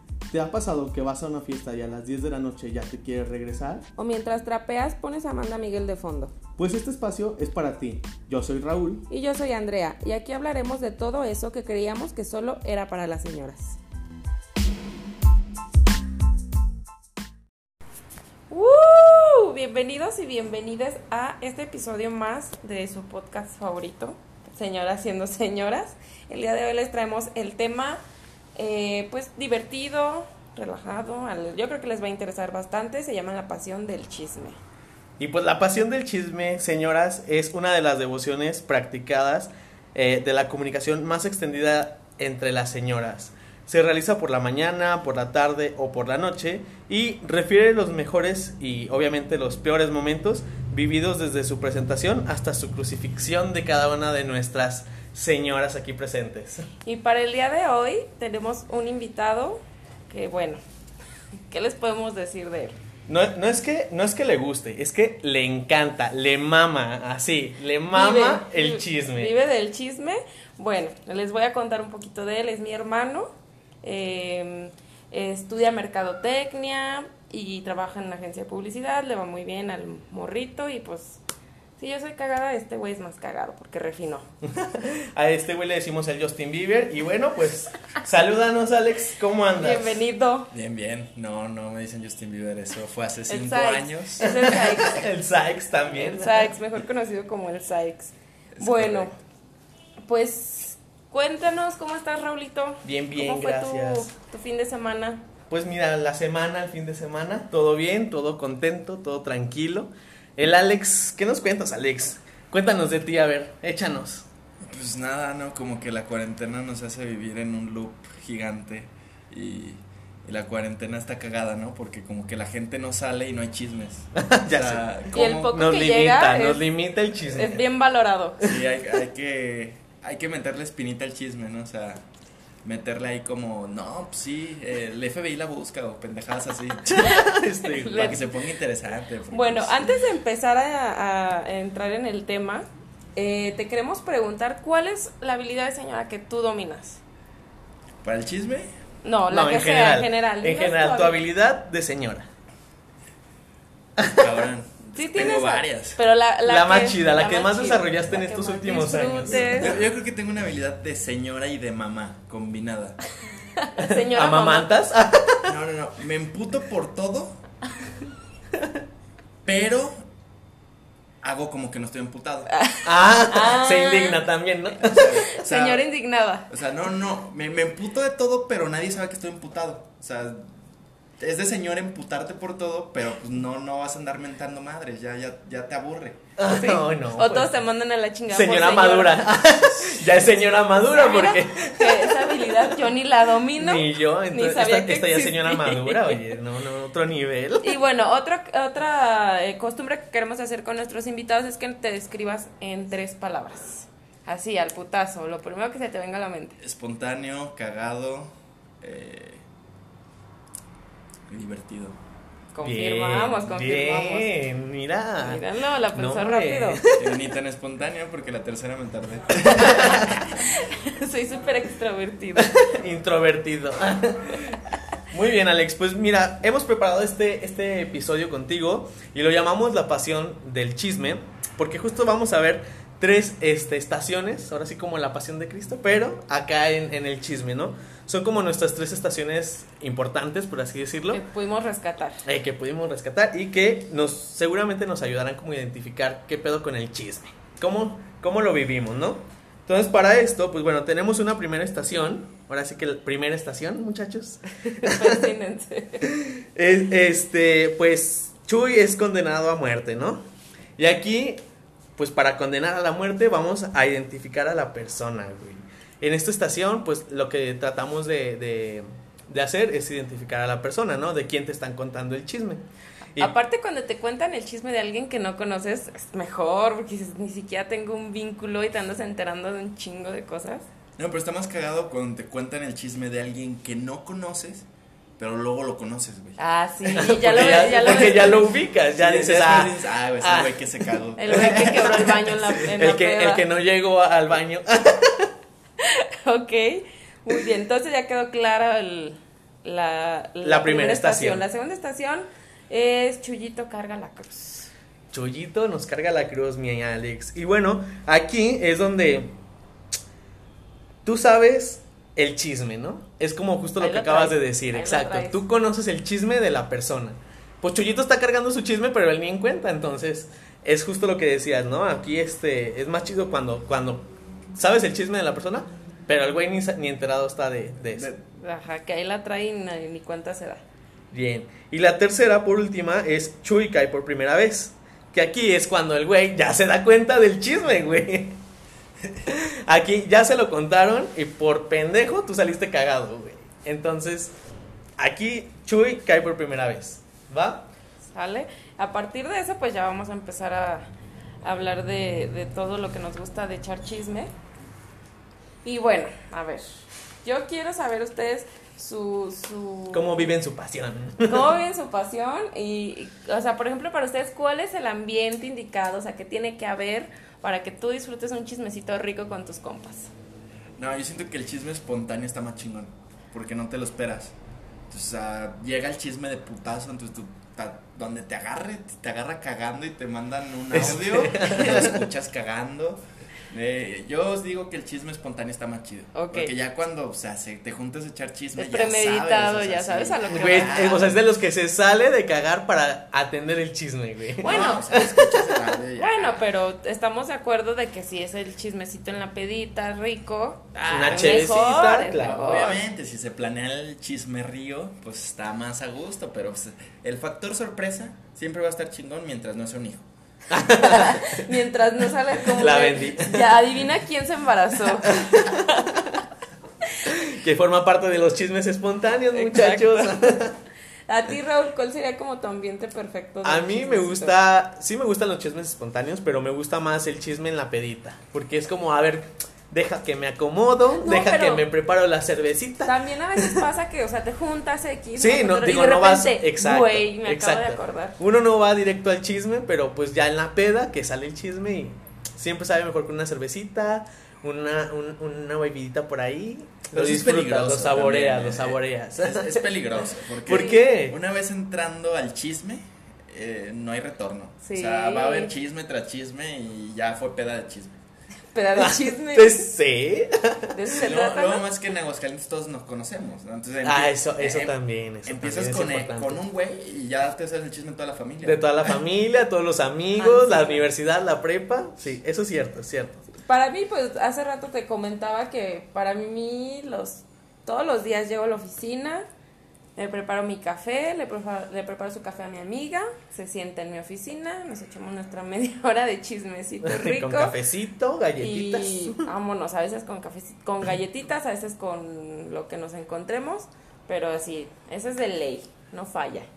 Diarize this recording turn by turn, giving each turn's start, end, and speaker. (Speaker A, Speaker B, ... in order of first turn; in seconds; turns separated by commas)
Speaker A: 0.3-3.9, Speaker B: 4.0-6.3, Speaker A: 6.6-9.1, Speaker B: 9.1-13.8, Speaker B: 18.5-28.0, Speaker B: 28.6-34.6, Speaker A: 35.2-56.7, Speaker B: 56.8-60.6, Speaker B: 61.5-62.8, Speaker A: 63.1-69.3, Speaker B: 67.9-73.3, Speaker B: 73.8-81.2, Speaker B: 81.8-84.3, Speaker A: 84.4-90.0, Speaker B: 89.6-90.5, Speaker C: 90.5-94.7, Speaker B: 93.3-95.1, Speaker A: 94.4-96.5, Speaker B: 96.0-99.1, Speaker C: 98.5-99.2, Speaker B: 100.1-105.2, Speaker A: 102.8-104.1, Speaker A: 105.5-114.3, Speaker C: 114.6-125.6, Speaker A: 124.2-124.9, Speaker B: 125.1-128.5, Speaker A: 125.4-127.6, Speaker C: 128.4-132.1, Speaker C: 132.6-137.2, Speaker A: 136.8-138.2, Speaker B: 137.0-138.3, Speaker C: 137.9-139.9, Speaker B: 139.3-147.0, Speaker C: 148.0-148.7, Speaker B: 149.0-151.2, Speaker A: 149.3-152.3, Speaker A: 154.0-154.3, Speaker C: 154.1-156.0, Speaker B: 155.0-159.8, Speaker A: 156.5-159.7, Speaker C: 159.5-163.0, Speaker B: 163.6-164.7, Speaker A: 163.8-165.5, Speaker C: 165.4-167.4, Speaker C: 169.4-170.0, Speaker C: 171.2-172.5, Speaker B: 172.5-174.2, Speaker A: 172.8-175.2, Speaker C: 174.8-175.9, Speaker B: 175.0-176.5, Speaker C: 176.5-180.5, Speaker C: 181.2-186.2, Speaker A: 186.4-187.5, Speaker B: 186.5-189.3, Speaker A: 188.3-192.7, Speaker B: 190.8-196.3, Speaker A: 193.6-197.7, Speaker B: 197.6-206.6, Speaker C: 206.6-209.4, Speaker C: 211.3-212.0, Speaker B: 212.5-214.3, Speaker A: 212.6-217.2, Speaker B: 215.2-216.8, Speaker C: 217.0-220.4, Speaker A: 219.7-220.1, Speaker B: 220.4-222.7, Speaker A: 222.4-241.2, Speaker B: 241.1-242.2, Speaker A: 242.2-255.2, Speaker B: 254.8-256.1, Speaker A: 256.0-260.2, Speaker A: 260.8-261.4, Speaker A: 262.0-272.6, Speaker B: 273.2-280.7, Speaker C: 281.0-284.7, Speaker C: 285.2-292.5, Speaker B: 286.4-288.4, Speaker A: 287.0-290.6, Speaker B: 291.2-293.5, Speaker A: 291.3-295.3, Speaker B: 295.8-304.7, Speaker A: 300.4-301.4, Speaker A: 305.1-309.4, Speaker A: 311.1-328.1, Speaker B: 313.8-315.4, Speaker C: 327.9-328.2, Speaker B: 328.4-330.6, Speaker A: 331.1-338.4, Speaker A: 339.3-344.3, Speaker A: 345.0-347.7, Speaker B: 348.1-350.9, Speaker B: 351.4-354.3, Speaker B: 355.6-356.6, Speaker B: 357.2-360.3, Speaker A: 359.9-361.5, Speaker B: 361.3-370.1, Speaker C: 370.8-374.3, Speaker C: 374.9-391.1, Speaker A: 380.7-382.0, Speaker B: 386.1-386.5, Speaker B: 388.6-391.1, Speaker A: 390.3-395.5, Speaker C: 394.4-396.4, Speaker B: 394.4-394.9, Speaker B: 396.0-402.8, Speaker C: 400.9-401.6, Speaker A: 400.9-402.7, Speaker C: 402.2-410.1, Speaker A: 410.5-411.5, Speaker B: 410.8-415.9, Speaker A: 412.4-413.6, Speaker A: 415.0-416.2, Speaker A: 417.1-420.6, Speaker B: 419.3-420.3, Speaker B: 421.1-424.4, Speaker A: 423.4-433.7, Speaker B: 430.9-431.7, Speaker B: 432.9-438.2, Speaker A: 435.2-449.6, Speaker C: 446.9-458.0, Speaker A: 450.4-451.2, Speaker B: 454.6-455.5, Speaker B: 458.5-459.7, Speaker A: 458.8-460.8, Speaker B: 460.7-461.7, Speaker C: 461.0-468.9, Speaker A: 463.8-466.4, Speaker A: 468.4-473.2, Speaker B: 470.2-470.9, Speaker B: 473.3-479.2, Speaker B: 480.0-487.6, Speaker A: 486.8-489.3, Speaker B: 488.4-496.5